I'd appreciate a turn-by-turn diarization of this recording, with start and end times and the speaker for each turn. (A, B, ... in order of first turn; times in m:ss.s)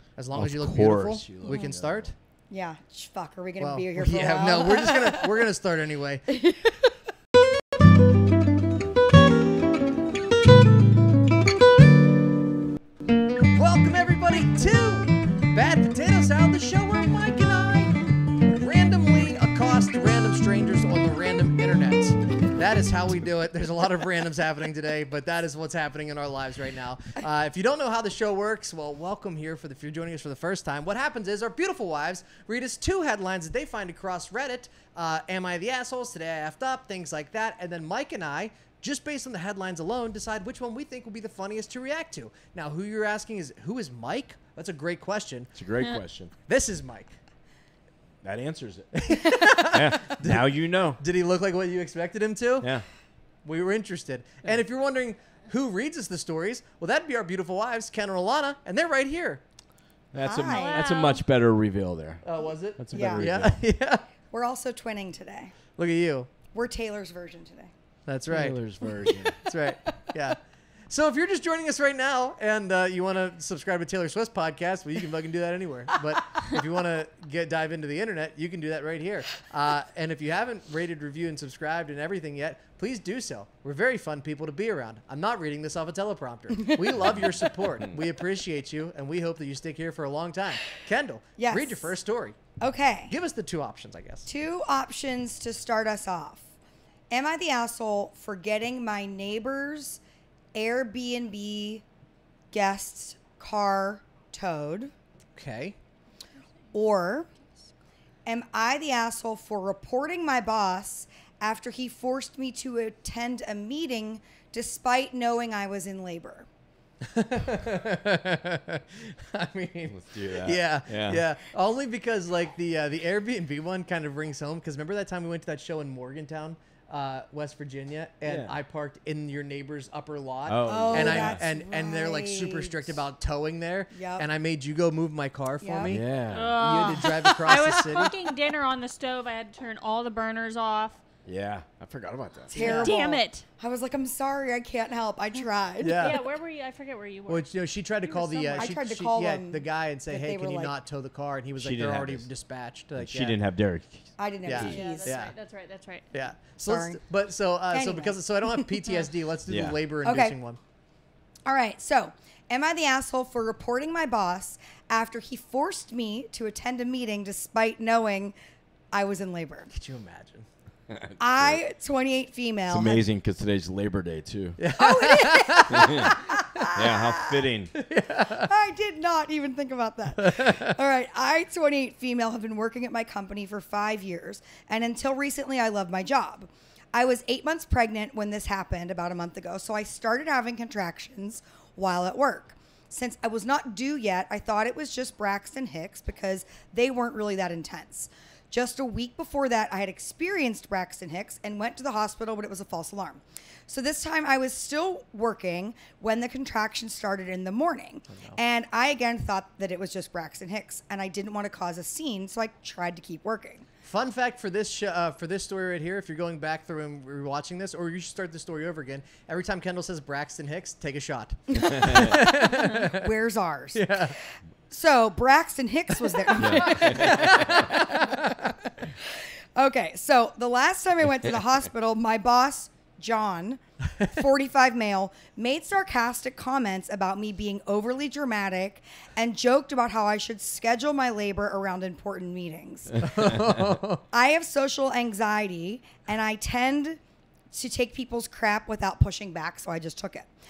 0:00.2-0:02.1 A
0:00.3-0:02.1 B
0:01.5-0:01.7 C
0:02.5-0:05.3 C
0:03.6-0:06.4 A
0:06.3-0:06.8 C
0:13.5-0:45.5 A
0:45.5-0:46.3 B
0:46.5-0:47.1 A
0:48.2-0:49.0 B
0:48.9-0:52.7 A
0:49.6-0:51.0 B
0:52.6-0:52.8 B
0:53.4-0:59.4 A
1:00.1-1:02.2 B
1:00.2-1:00.8 C
1:00.5-1:01.2 D
1:02.2-1:04.0 A
1:02.8-1:03.6 B
1:02.9-1:03.3 C
1:04.3-1:05.5 C
1:05.8-1:06.3 A
1:06.5-1:07.7 C
1:08.0-1:08.6 A
1:08.3-1:09.4 B
1:09.0-1:09.3 C
1:09.4-1:32.4 A
1:09.8-1:10.1 C
1:26.7-1:27.3 C
1:31.4-1:31.9 C
1:32.6-1:33.1 C
1:33.1-1:34.3 A
1:34.2-1:36.4 C
1:37.1-1:40.0 C
1:40.5-1:41.8 C
1:42.5-1:44.9 C
1:45.3-1:45.8 A
1:46.7-1:47.3 C
1:48.2-1:56.5 C
1:57.0-2:18.1 A
1:59.9-2:01.2 B
2:08.2-2:08.6 B
2:10.5-2:11.4 B
2:10.6-2:13.0 C
2:13.9-2:14.2 C
2:15.6-2:15.9 C
2:15.8-2:16.6 B
2:16.3-2:21.0 D
2:16.8-2:17.6 C
2:21.2-2:22.9 B
2:22.5-2:26.2 C
2:22.5-2:23.4 D
2:25.8-2:26.2 A
2:26.0-2:27.5 D
2:27.3-2:33.4 A
2:28.0-2:28.8 D
2:28.5-2:30.7 C
2:31.6-2:32.3 B
2:33.0-2:34.1 B
2:34.2-2:35.2 C
2:34.4-2:35.3 A
2:34.5-2:36.1 D
2:36.1-2:40.6 A
2:36.7-2:37.0 C
2:37.7-2:38.8 C
2:39.5-2:39.8 B
2:40.0-2:40.4 C
2:41.4-2:48.3 C
2:48.9-2:49.7 C
2:49.7-2:50.5 A
2:50.9-2:51.6 B
2:51.2-2:53.0 C
2:52.7-2:54.6 B
2:54.6-2:56.8 A
2:54.8-2:57.4 C
2:55.7-2:56.1 B
2:56.7-2:57.7 B
2:57.7-2:58.5 A
2:58.4-3:33.6 C
3:00.2-3:00.8 A
3:28.1-3:28.4 A
3:33.8-3:43.1 A
3:41.6-4:03.0 C
3:43.7-3:44.1 A
3:46.1-3:48.5 A
3:46.4-3:47.7 B
4:03.0-4:04.0 A
4:04.1-4:07.0 C
4:07.5-4:10.3 C